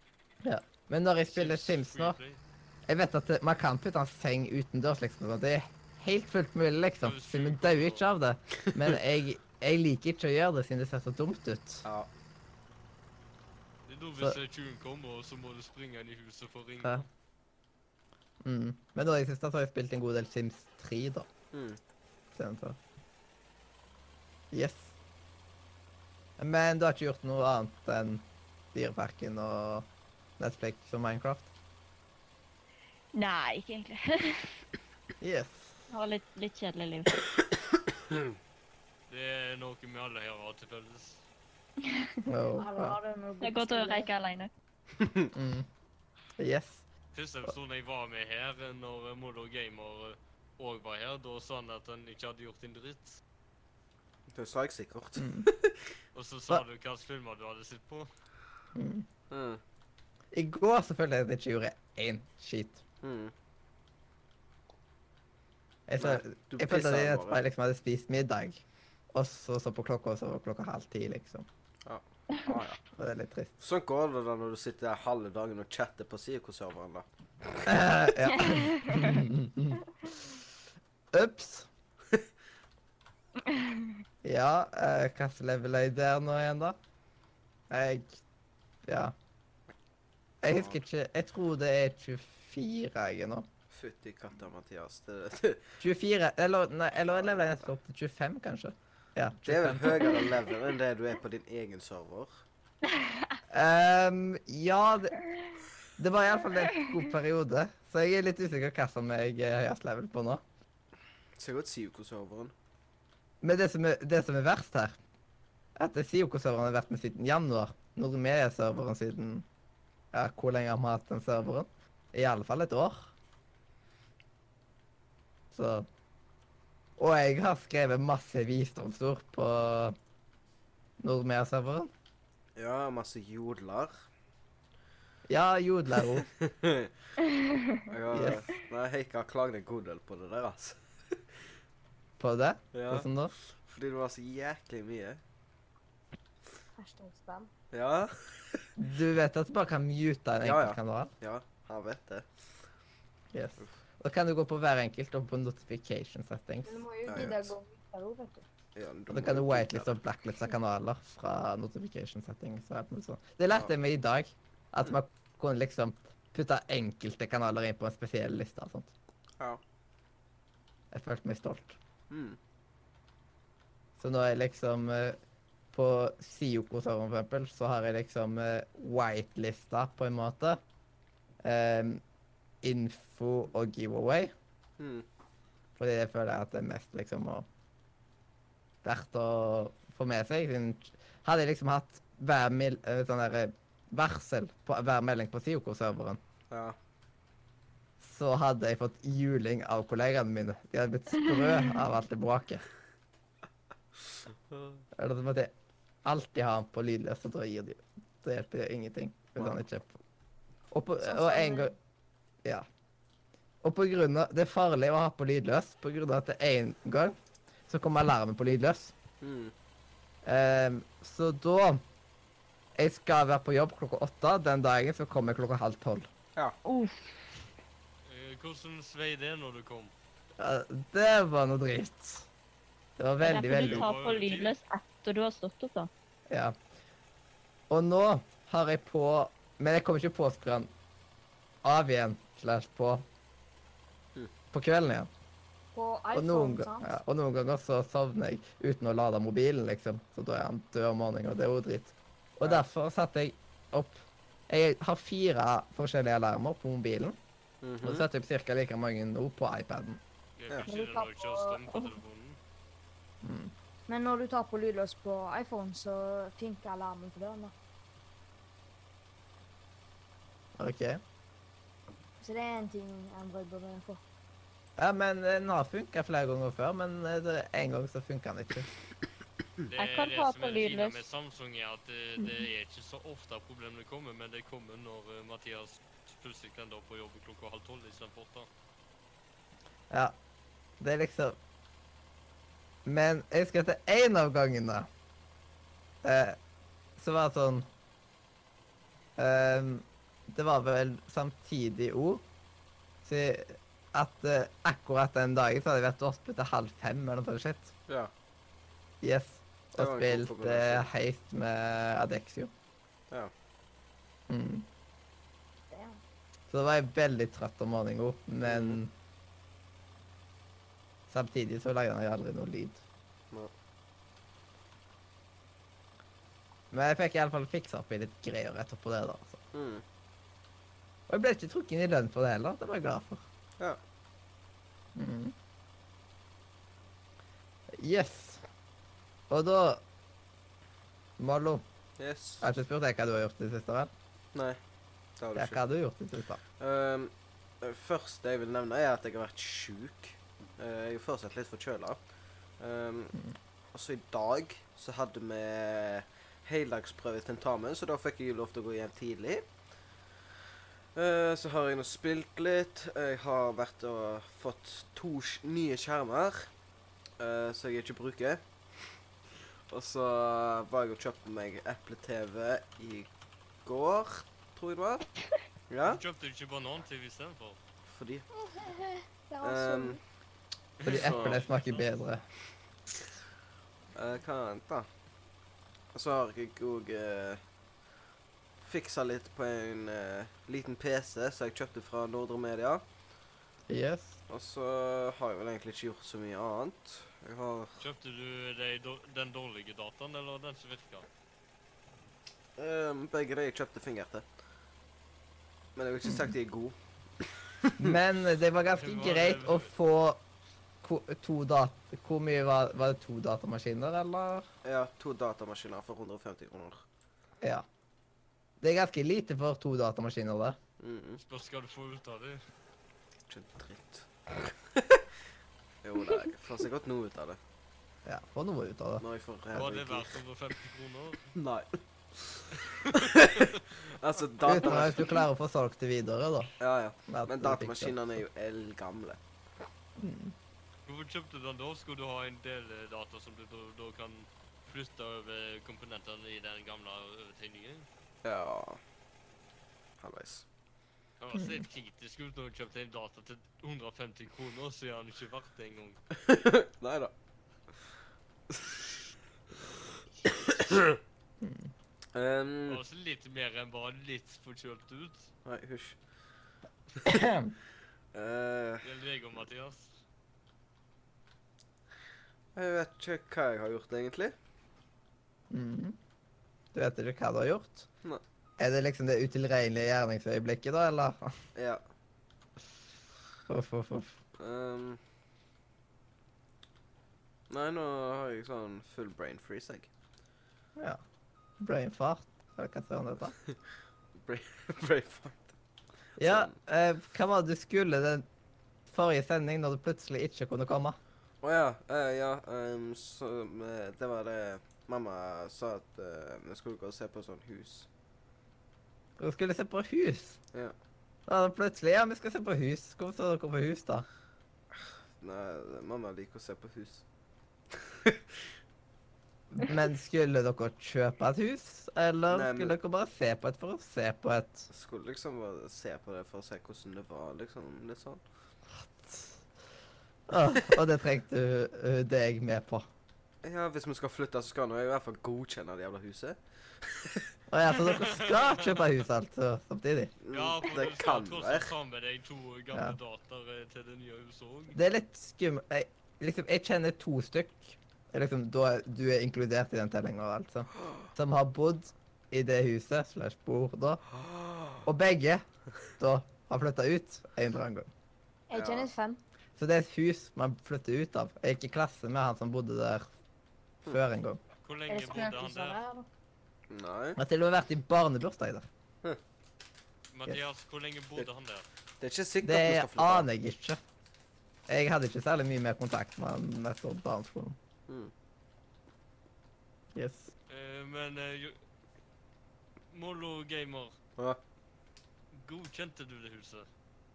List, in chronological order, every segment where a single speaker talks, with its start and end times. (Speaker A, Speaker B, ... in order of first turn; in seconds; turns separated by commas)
Speaker A: 0.4-2.2, Speaker B: 1.3-2.4, Speaker A: 2.9-11.8, Speaker B: 7.0-8.0, Speaker C: 11.8-12.1, Speaker B: 13.9-17.1, Speaker A: 18.4-21.3, Speaker C: 21.5-21.8, Speaker A: 22.3-22.8, Speaker A: 24.5-24.9, Speaker A: 26.4-29.9, Speaker A: 30.4-31.5, Speaker D: 33.1-34.5, Speaker A: 35.2-35.8, Speaker D: 35.9-37.2, Speaker B: 39.1-41.2, Speaker D: 41.9-42.1, Speaker A: 42.2-43.0, Speaker E: 42.6-44.1, Speaker D: 43.4-44.5, Speaker C: 45.0-45.3, Speaker A: 45.3-45.7, Speaker A: 46.4-46.8, Speaker B: 47.1-53.2, Speaker C: 54.3-55.8, Speaker A: 55.2-55.5, Speaker B: 56.1-58.1, Speaker A: 58.7-59.0, Speaker C: 59.3-59.6, Speaker A: 60.3-62.8, Speaker C: 63.0-63.3, Speaker A: 65.9-71.5, Speaker C: 66.0-67.4, Speaker C: 71.8-72.8, Speaker A: 72.9-73.5, Speaker C: 73.6-77.7, Speaker A: 77.7-80.3, Speaker D: 78.3-79.2, Speaker A: 81.1-81.7, Speaker D: 83.5-83.9, Speaker A: 84.2-86.8, Speaker A: 87.7-88.2, Speaker A: 88.8-89.1, Speaker A: 90.4-93.4, Speaker C: 90.5-90.8, Speaker C: 93.7-95.6, Speaker A: 95.8-100.3, Speaker C: 97.1-97.7, Speaker C: 99.4-102.4, Speaker A: 103.5-105.1, Speaker A: 106.0-110.4, Speaker C: 111.4-112.5, Speaker A: 113.4-115.0, Speaker A: 115.8-119.4, Speaker A: 120.1-123.1, Speaker A: 125.5-125.9, Speaker A: 127.0-129.9, Speaker A: 131.0-131.9, Speaker C: 132.6-133.9, Speaker A: 135.3-136.3, Speaker C: 136.2-136.9, Speaker C: 137.9-141.2, Speaker A: 138.1-138.4, Speaker A: 142.2-143.3, Speaker C: 142.7-143.1, Speaker C: 143.6-145.2, Speaker E: 146.8-147.5, Speaker C: 147.7-148.6, Speaker A: 148.8-151.1, Speaker C: 150.4-152.3, Speaker A: 153.3-156.8, Speaker E: 156.6-158.4, Speaker C: 157.1-157.5, Speaker C: 158.8-159.9, Speaker A: 159.1-168.9, Speaker A: 170.9-171.8, Speaker C: 172.1-172.4, Speaker A: 174.0-175.2, Speaker A: 175.7-180.6, Speaker A: 181.4-182.0, Speaker A: 182.6-184.3, Speaker C: 184.8-185.0, Speaker A: 185.8-187.4, Speaker A: 188.8-196.2, Speaker C: 196.5-196.8, Speaker A: 198.0-202.6, Speaker C: 204.5-204.8, Speaker A: 204.9-205.5, Speaker A: 206.0-210.0, Speaker A: 210.7-211.7, Speaker E: 211.0-211.7, Speaker A: 213.6-217.2, Speaker A: 217.7-218.9, Speaker C: 219.2-219.5, Speaker A: 220.2-221.8, Speaker A: 222.8-226.1, Speaker D: 226.6-227.1, Speaker B: 228.0-229.9, Speaker A: 230.4-232.3, Speaker A: 233.0-233.9, Speaker D: 233.2-235.9, Speaker B: 233.5-234.5, Speaker A: 236.3-236.5, Speaker A: 237.7-240.7, Speaker A: 241.6-243.0, Speaker A: 244.5-245.1, Speaker E: 245.7-247.0, Speaker A: 246.1-257.2, Speaker C: 257.6-258.0, Speaker A: 257.8-260.0, Speaker B: 260.4-262.4, Speaker E: 260.7-261.9, Speaker A: 263.2-263.5, Speaker E: 263.9-267.5, Speaker A: 270.6-271.0, Speaker E: 272.2-274.0, Speaker A: 274.8-278.7, Speaker B: 279.7-288.5, Speaker D: 279.7-281.0, Speaker A: 289.9-290.1, Speaker A: 290.8-291.4, Speaker A: 292.9-294.9, Speaker A: 296.0-296.4, Speaker A: 297.0-297.6, Speaker A: 299.2-302.2, Speaker A: 303.0-307.7, Speaker A: 309.0-312.5, Speaker C: 309.8-310.9, Speaker A: 314.3-314.7, Speaker E: 315.7-316.0, Speaker A: 316.5-318.9, Speaker C: 318.4-318.8, Speaker A: 321.1-322.8, Speaker A: 326.7-329.4, Speaker C: 329.5-329.8, Speaker A: 331.1-333.2, Speaker A: 334.9-335.3, Speaker A: 337.7-338.4, Speaker A: 339.3-339.8, Speaker A: 341.2-341.6, Speaker C: 342.0-342.5, Speaker A: 342.4-343.9, Speaker C: 344.3-344.6, Speaker C: 345.2-345.6, Speaker A: 345.3-346.4, Speaker C: 346.6-352.0, Speaker C: 352.6-353.1, Speaker C: 353.7-359.5, Speaker C: 360.9-366.5, Speaker C: 367.2-368.4, Speaker C: 369.7-373.1, Speaker C: 373.6-375.1, Speaker C: 375.7-376.0, Speaker B: 375.8-377.6, Speaker C: 377.9-378.2, Speaker E: 378.3-380.0, Speaker C: 379.4-380.0, Speaker B: 380.8-381.8, Speaker A: 380.8-382.2, Speaker C: 380.9-381.4, Speaker C: 383.9-384.9, Speaker C: 385.9-387.4, Speaker C: 388.6-392.8, Speaker A: 393.7-394.2, Speaker C: 394.3-397.8, Speaker B: 397.8-401.1, Speaker C: 402.6-404.2, Speaker C: 405.8-408.0, Speaker A: 406.0-406.3, Speaker A: 407.8-410.2, Speaker B: 408.7-409.7, Speaker A: 410.8-414.5, Speaker C: 414.6-416.8, Speaker A: 418.6-420.6, Speaker C: 420.8-421.2, Speaker B: 421.2-422.4, Speaker C: 423.3-425.0, Speaker C: 425.8-427.4, Speaker A: 428.1-429.0, Speaker C: 429.0-430.2, Speaker B: 429.5-431.3, Speaker C: 431.4-435.2, Speaker B: 432.9-433.6, Speaker A: 434.4-436.5, Speaker C: 436.6-439.2, Speaker A: 437.1-438.0, Speaker A: 440.0-440.3, Speaker B: 440.9-447.9, Speaker C: 448.2-448.8, Speaker C: 450.0-450.4, Speaker B: 451.2-456.0, Speaker A: 451.4-451.6, Speaker C: 456.1-457.1, Speaker C: 458.5-458.9, Speaker C: 460.2-461.0, Speaker A: 461.4-461.7, Speaker C: 462.1-462.8, Speaker B: 462.7-465.3, Speaker C: 465.4-466.0, Speaker A: 467.0-467.5, Speaker C: 468.1-468.9, Speaker B: 468.8-469.9, Speaker C: 472.6-474.3, Speaker A: 475.5-476.0, Speaker A: 476.7-477.9, Speaker A: 478.6-481.3, Speaker C: 481.6-481.8, Speaker A: 483.5-484.2, Speaker C: 484.4-485.0, Speaker C: 487.5-489.9, Speaker A: 491.6-493.3, Speaker C: 494.2-495.5, Speaker C: 496.2-496.5, Speaker A: 496.2-498.2, Speaker A: 498.9-500.9, Speaker C: 501.4-507.9, Speaker A: 509.2-510.4, Speaker A: 511.3-514.0, Speaker C: 514.7-517.0, Speaker C: 517.7-518.2, Speaker A: 519.5-524.7, Speaker C: 522.3-522.7, Speaker C: 524.7-528.2, Speaker A: 528.7-529.4, Speaker A: 530.3-532.9, Speaker C: 533.4-537.2, Speaker A: 537.5-540.1, Speaker B: 537.8-538.9, Speaker C: 540.2-541.7, Speaker B: 540.3-544.8, Speaker A: 544.7-554.0, Speaker C: 554.1-554.8, Speaker A: 554.8-555.4, Speaker A: 556.0-557.9, Speaker E: 558.5-559.2, Speaker C: 558.5-558.9, Speaker A: 559.6-563.0, Speaker A: 563.9-564.4, Speaker B: 564.6-565.8, Speaker E: 564.9-566.1, Speaker C: 566.7-567.2, Speaker A: 567.2-568.7, Speaker B: 570.1-571.6, Speaker C: 572.0-573.3, Speaker A: 572.4-573.8, Speaker A: 574.7-577.6, Speaker A: 579.9-580.3, Speaker B: 580.5-581.5, Speaker B: 582.9-583.9, Speaker B: 585.3-586.7